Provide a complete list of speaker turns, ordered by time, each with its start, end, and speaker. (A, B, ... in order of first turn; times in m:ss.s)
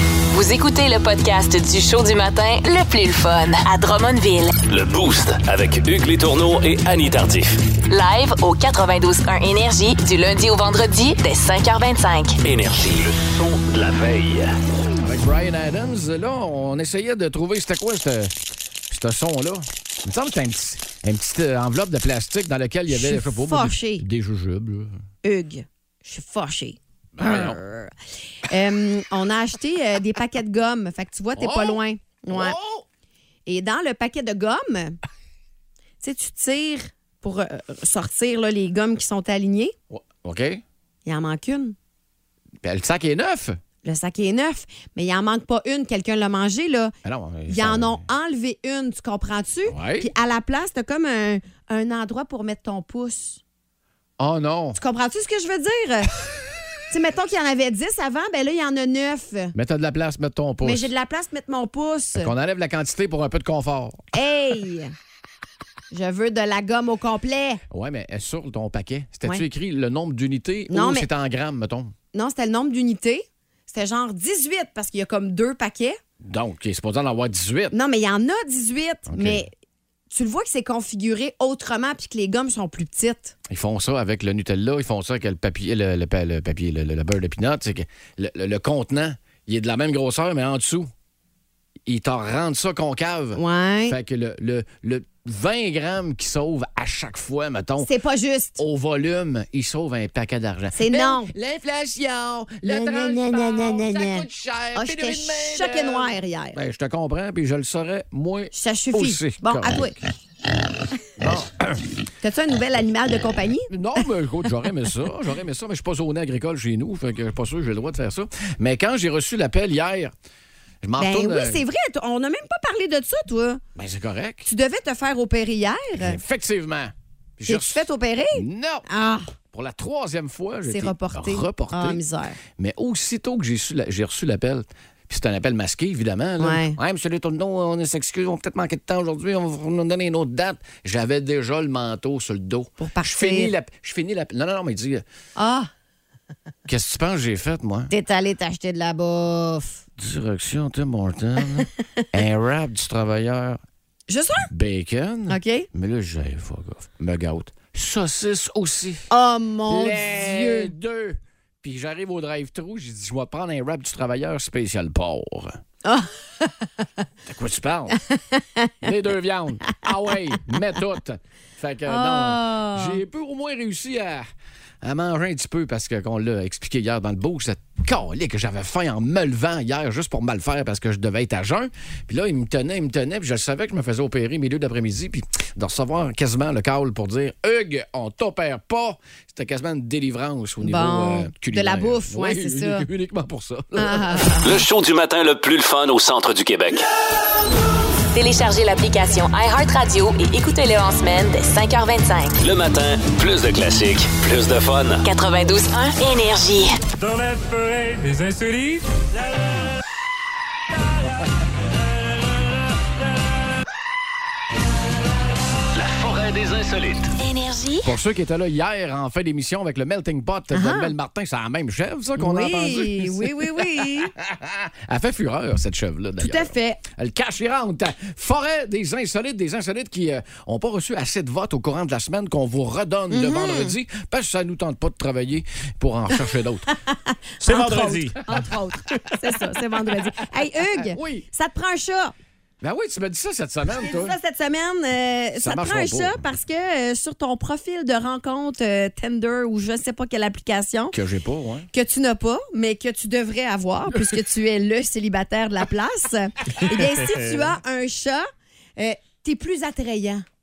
0:00.3-0:04.6 A
0:04.7-0:07.6 B
0:07.9-0:12.4 A
0:12.4-0:14.5 B
0:15.0-0:18.3 C
0:18.9-0:25.0 C
0:22.9-0:24.0 D
0:25.2-0:27.9 D
0:27.2-0:27.6 C
0:28.5-0:32.6 D
0:31.4-0:32.8 C
0:33.4-0:35.0 D
0:36.0-0:39.7 D
0:39.9-0:40.6 C
0:41.0-0:41.7 D
0:42.6-0:43.6 C
0:43.8-0:46.9 D
0:47.0-0:48.0 C
0:47.5-0:53.4 D
0:49.7-0:50.1 C
0:54.2-0:54.8 C
0:54.8-0:56.1 D
0:56.9-0:59.5 D
0:59.5-1:00.9 C
1:00.6-1:02.3 D
1:02.1-1:04.0 C
1:04.1-1:04.9 D
1:05.9-1:07.6 D
1:07.7-1:11.9 C
1:10.7-1:11.1 D
1:12.1-1:16.0 D
1:16.2-1:17.7 C
1:17.7-1:19.5 D
1:19.1-1:19.4 C
1:20.1-1:23.3 D
1:23.5-1:30.9 C
1:31.9-1:37.9 C
1:33.4-1:34.0 D
1:37.8-1:38.6 D
1:38.6-1:50.0 C
1:40.7-1:41.3 D
1:42.6-1:46.6 D
1:48.5-1:50.0 D
1:51.2-1:51.8 C
1:52.2-1:53.7 D
1:53.7-2:00.1 C
2:00.8-2:01.6 C
2:01.0-2:03.6 D
2:03.8-2:04.5 C
2:04.5-2:06.2 D
2:06.0-2:08.8 C
2:07.5-2:09.3 D
2:09.5-2:12.0 C
2:10.7-2:12.4 D
2:12.6-2:25.0 C
2:16.4-2:16.8 D
2:22.8-2:23.5 D
2:25.4-2:25.7 D
2:26.7-2:27.9 C
2:27.9-2:29.8 D
2:30.0-2:33.6 C
2:34.1-2:34.5 D
2:34.5-2:39.1 C
2:35.3-2:35.7 D
2:39.1-2:40.7 D
2:39.7-2:45.6 C
2:45.8-2:46.9 D
2:47.2-2:48.0 C
2:48.0-2:48.9 D
2:48.8-2:54.2 C
2:51.9-2:53.0 D
2:54.8-3:14.3 C
3:10.6-3:12.8 D
3:13.7-3:14.6 D
3:14.4-3:16.8 B
3:18.1-3:22.4 A
3:22.4-3:25.0 B
3:25.0-3:26.7 A
3:27.0-3:28.8 E
3:35.7-3:37.1 B
3:37.2-3:37.9 A
3:37.8-3:43.4 C
3:40.5-3:40.9 D
3:42.2-3:44.1 D
3:44.2-3:56.7 C
3:46.2-3:46.8 D
3:53.1-3:53.7 D
3:56.9-4:02.1 D
3:57.4-3:58.2 E
4:00.7-4:01.2 C
4:02.6-4:04.2 C
4:03.8-4:10.9 D
4:05.4-4:06.3 C
4:10.9-4:11.7 C
4:11.7-4:18.2 D
4:16.7-4:17.4 E
4:18.8-4:20.2 D